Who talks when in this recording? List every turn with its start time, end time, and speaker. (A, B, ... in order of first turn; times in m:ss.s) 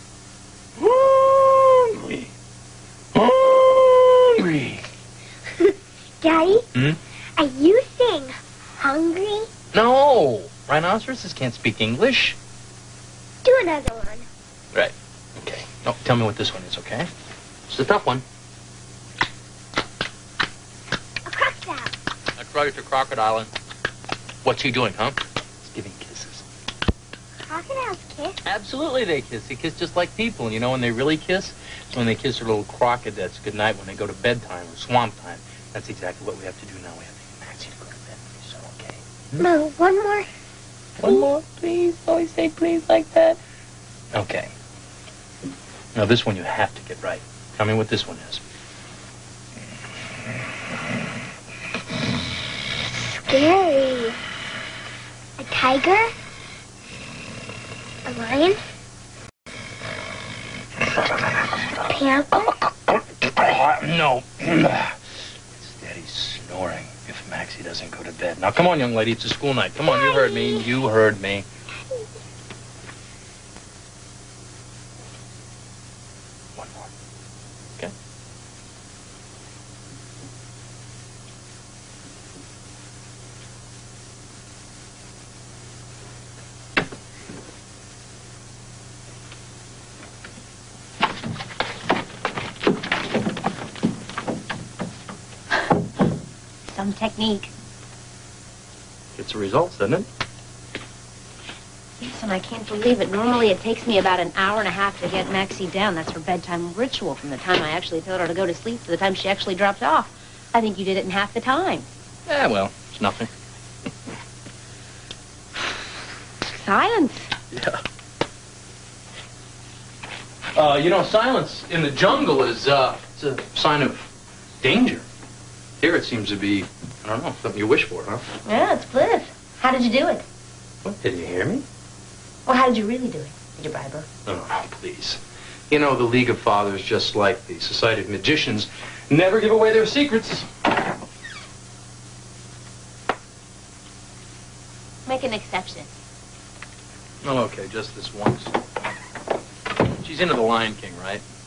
0:00.8-0:02.3 A
0:03.2-0:04.8 A
0:05.6-0:06.7 B
0:07.4-0:09.5 B
0:09.7-0:12.4 A
0:13.4-0:14.3 B
0:14.7-0:17.1 A
0:17.7-0:18.2 A
0:21.3-0:21.9 B
0:22.4-0:23.5 A
0:24.4-0:26.4 A
0:27.4-0:28.4 B
0:28.4-0:39.5 A
0:39.4-0:40.3 B
0:41.0-0:41.4 A
0:41.0-0:43.4 C
0:44.1-0:44.5 A
0:46.0-0:48.4 A
0:52.9-0:54.2 B
0:55.4-0:56.1 B
0:58.1-0:58.6 B
1:01.4-1:01.9 A
1:01.9-1:02.7 B
1:03.2-1:05.0 A
1:05.5-1:11.5 A
1:09.8-1:10.7 B
1:16.6-1:16.9 A
1:36.7-1:37.5 C
1:39.2-1:40.1 A
1:42.0-1:51.9 C
1:52.3-1:53.3 A
1:56.4-1:57.3 C
1:57.5-1:57.8 A
2:00.6-2:04.1 A
2:04.6-2:05.0 A
2:05.8-2:08.2 A
2:08.4-2:10.2 C
2:10.8-2:11.6 A
2:12.5-2:14.1 C
2:14.3-2:20.5 A
2:25.1-2:25.9 C
2:27.2-2:28.6 A
2:29.9-2:31.2 A